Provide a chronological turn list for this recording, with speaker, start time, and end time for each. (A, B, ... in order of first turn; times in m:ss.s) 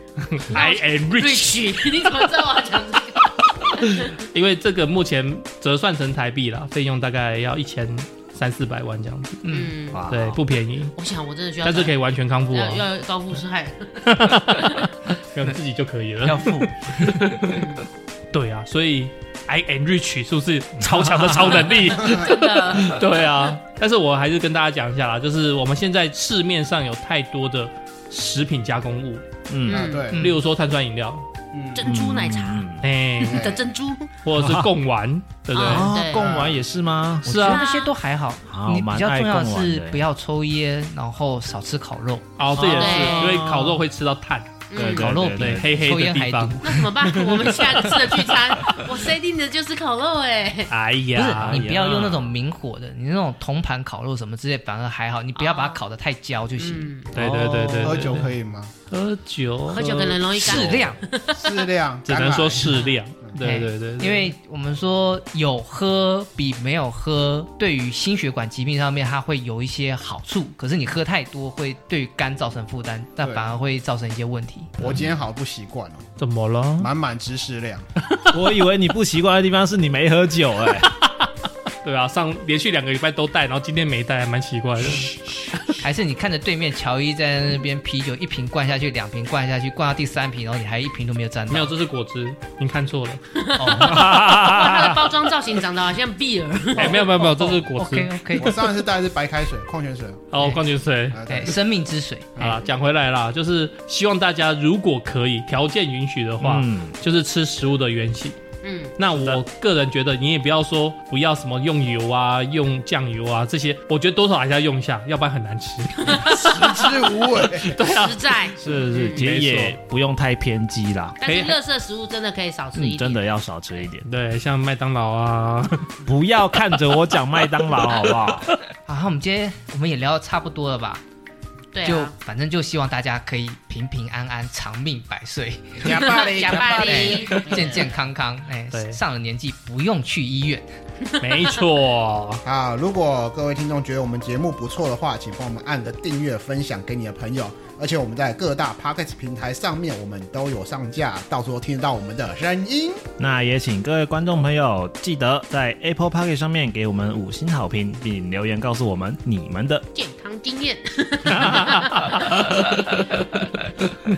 0:00.2-0:02.3 A
0:00.5-0:04.1 B
0:03.7-0:09.5 A
0:09.4-0:09.7 C
0:09.5-0:10.1 B
0:09.9-0:10.4 D
0:10.1-0:11.0 A
0:11.0-0:12.0 B
0:11.6-0:12.8 A
0:12.5-0:14.9 B
0:14.0-0:29.3 A
0:16.2-0:17.5 C
0:17.5-0:17.8 B
0:20.9-0:21.6 D
0:21.6-0:23.0 B
0:29.5-0:29.9 D
0:29.7-0:30.1 B
0:29.7-0:30.3 E
0:30.0-0:31.3 A
0:30.1-0:30.4 C
0:31.5-0:31.9 E
0:31.8-0:32.7 B
0:31.8-0:32.9 D
0:32.8-0:33.5 A
0:33.2-0:34.1 B
0:33.2-0:33.6 E
0:34.2-0:35.9 A
0:34.4-0:34.7 D
0:35.5-0:36.5 B
0:35.6-0:37.5 D
0:36.2-0:36.6 E
0:37.2-0:37.6 A
0:37.3-0:42.4 C
0:37.5-0:37.9 B
0:38.5-0:40.0 D
0:42.4-0:48.8 A
0:42.6-0:43.8 D
0:42.7-0:43.4 B
0:44.7-0:45.1 B
0:44.8-0:45.8 D
0:44.8-0:46.9 C
0:46.6-0:50.7 B
0:50.7-0:52.3 A
0:51.2-0:56.9 C
0:51.5-0:51.8 D
0:55.4-0:55.8 B
0:56.6-0:57.1 B
0:57.1-0:58.3 A
0:57.2-0:58.1 D
0:57.8-0:58.7 E
0:58.9-1:00.9 A
0:59.7-1:01.7 B
1:00.4-1:01.0 C
1:01.3-1:03.4 E
1:02.1-1:04.3 A
1:03.4-1:14.8 C
1:13.2-1:13.5 E
1:14.8-1:16.1 E
1:16.2-1:16.9 A
1:16.8-1:17.9 E
1:18.3-1:20.9 D
1:20.8-1:21.3 A
1:21.8-1:25.7 A
1:25.8-1:31.7 C
1:31.5-1:34.2 A
1:33.4-1:37.6 B
1:33.6-1:34.1 C
1:33.9-1:35.0 D
1:36.7-1:38.6 A
1:37.6-1:38.6 C
1:38.4-1:40.3 E
1:40.3-1:41.2 A
1:41.1-1:41.6 E
1:41.2-1:42.4 C
1:42.4-1:42.6 E
1:42.4-1:48.4 A
1:46.4-1:47.0 D
1:48.6-1:49.0 B
1:49.0-1:56.9 A
1:56.0-1:57.0 B
1:56.3-1:57.8 E
1:57.6-1:58.5 A
1:57.7-1:59.2 B
1:58.6-2:01.2 D
1:59.2-1:59.8 A
2:01.2-2:03.3 B
2:01.2-2:01.6 A
2:02.8-2:04.1 D
2:04.1-2:05.9 A
2:06.0-2:08.5 D
2:08.9-2:11.0 C
2:11.7-2:12.1 B
2:11.8-2:20.7 C
2:15.8-2:17.8 E
2:15.9-2:17.9 B
2:18.7-2:19.0 A
2:21.2-2:22.4 A
2:22.4-2:33.0 E
2:33.2-2:39.9 D
2:39.9-2:42.4 B
2:41.3-2:43.4 A